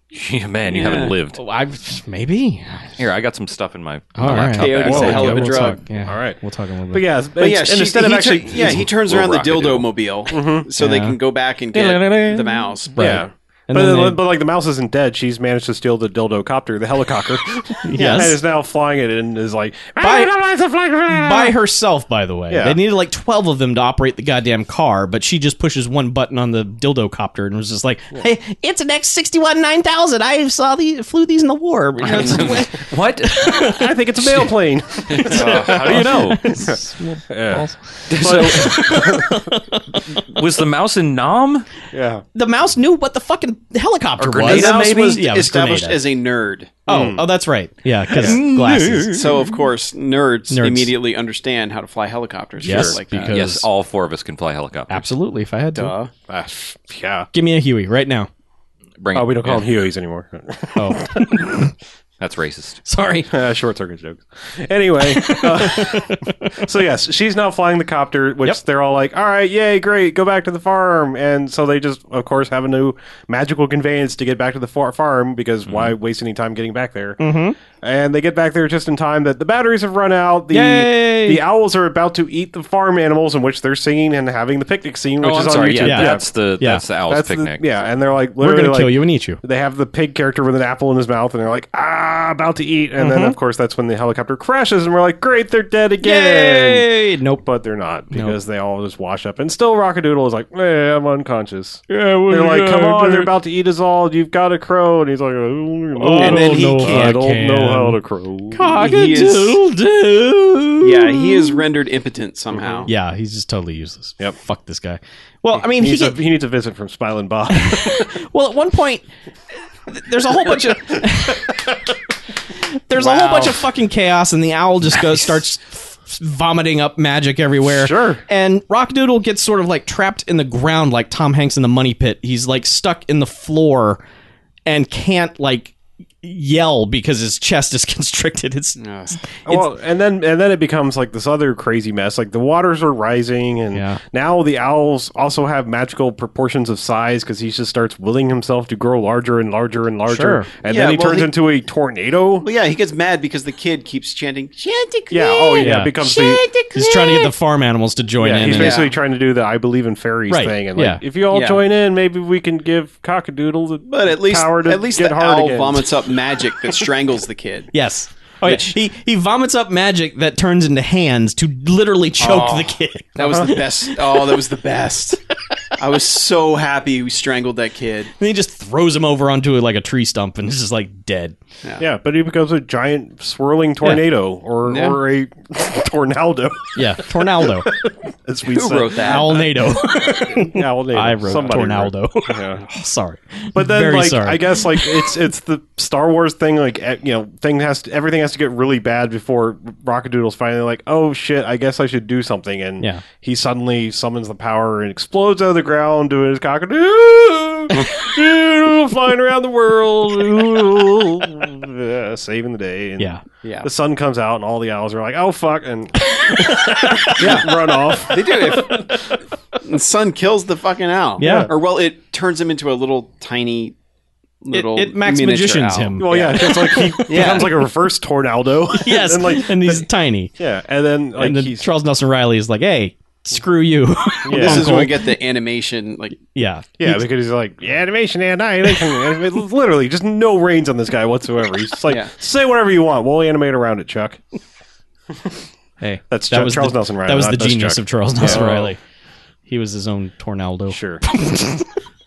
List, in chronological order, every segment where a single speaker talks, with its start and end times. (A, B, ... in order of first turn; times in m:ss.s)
0:00.1-0:01.4 A
0:00.7-0:01.1 B
0:01.3-0:02.9 C
0:03.0-0:05.6 A
0:04.1-0:07.0 C
0:04.6-0:05.8 B
0:04.9-0:06.4 D
0:06.9-0:08.9 D
0:07.4-0:12.9 B
0:08.6-0:09.9 A
0:10.3-0:10.7 D
0:10.8-0:11.2 C
0:11.8-0:12.4 D
0:11.8-0:12.3 A
0:12.9-0:14.2 C
0:12.9-0:21.6 D
0:17.9-0:18.4 C
0:18.0-0:18.2 B
0:20.0-0:20.3 C
0:21.1-0:33.9 C
0:22.5-0:22.8 D
0:32.0-0:33.5 A
0:33.7-0:39.4 D
0:35.1-0:39.2 A
0:35.2-0:37.7 C
0:38.2-0:40.2 C
0:40.2-0:41.7 A
0:41.9-0:42.2 D
0:42.4-0:46.0 C
0:44.2-0:45.3 A
0:44.4-0:46.8 B
0:46.9-0:47.2 D
0:46.9-0:49.2 C
0:48.1-0:49.5 A
0:49.1-0:53.4 B
0:50.5-0:50.9 C
0:52.6-0:53.3 D
0:52.6-0:53.7 C
0:53.3-0:55.0 A
0:54.9-0:55.9 C
0:55.7-0:56.1 B
0:56.3-0:57.3 D
0:57.3-0:58.3 C
0:59.0-0:59.7 A
0:59.1-1:01.5 D
1:00.8-1:01.7 C
1:02.2-1:02.8 A
1:02.8-1:03.3 C
1:03.3-1:36.9 D
1:05.2-1:06.2 C
1:15.7-1:15.9 A
1:17.2-1:17.6 C
1:20.5-1:21.4 C
1:25.2-1:27.6 A
1:25.8-1:26.8 C
1:28.4-1:29.4 C
1:33.0-1:33.4 C
1:36.0-1:37.4 C
1:37.4-1:48.7 D
1:38.1-1:38.4 C
1:41.9-1:43.3 C
1:46.0-1:48.0 C
1:46.2-1:47.1 B
1:48.5-1:51.6 C
1:48.7-1:49.6 B
1:50.8-1:52.9 B
1:52.5-1:52.9 D
1:52.9-1:56.2 C
1:55.6-1:58.1 D
1:57.6-1:59.1 C
1:59.9-2:01.6 C
2:02.6-2:14.0 C
2:03.0-2:03.6 B
2:07.6-2:08.2 D
2:14.6-2:18.8 C
2:18.8-2:19.2 B
2:19.4-2:32.5 D
2:23.7-2:24.0 C
2:30.1-2:30.5 C
2:30.6-2:31.3 B
2:32.4-2:37.2 B
2:35.1-2:36.4 D
2:35.6-2:36.0 C
2:36.7-2:38.8 C
2:38.2-2:45.9 D
2:38.4-2:38.9 B
2:40.3-2:41.0 C
2:41.3-2:41.6 B
2:43.9-2:47.7 B
2:47.7-2:53.6 C
2:48.4-2:48.7 B
2:52.2-2:55.2 B
2:53.2-2:53.5 D
2:55.8-2:58.1 B
2:58.2-3:01.4 C
3:01.8-3:12.6 D
3:04.6-3:05.0 B
3:06.7-3:07.7 C
3:08.5-3:09.4 B
3:09.0-3:15.0 C
3:13.6-3:38.9 D
3:36.1-3:37.4 C
3:37.2-3:37.5 B
3:38.1-3:38.9 B
3:39.6-3:43.7 B
3:41.2-3:41.5 C
3:41.2-3:41.5 D
3:44.4-3:47.5 B
3:44.5-3:47.4 C
3:46.0-3:51.7 D
3:48.8-3:50.3 C
3:51.2-3:55.0 C
3:54.2-3:54.8 D
3:54.4-3:56.2 B
3:56.3-3:57.1 C
3:56.8-4:04.2 D
4:05.8-4:08.8 C
4:06.1-4:08.7 D
4:09.5-4:11.7 C
4:10.7-4:11.0 D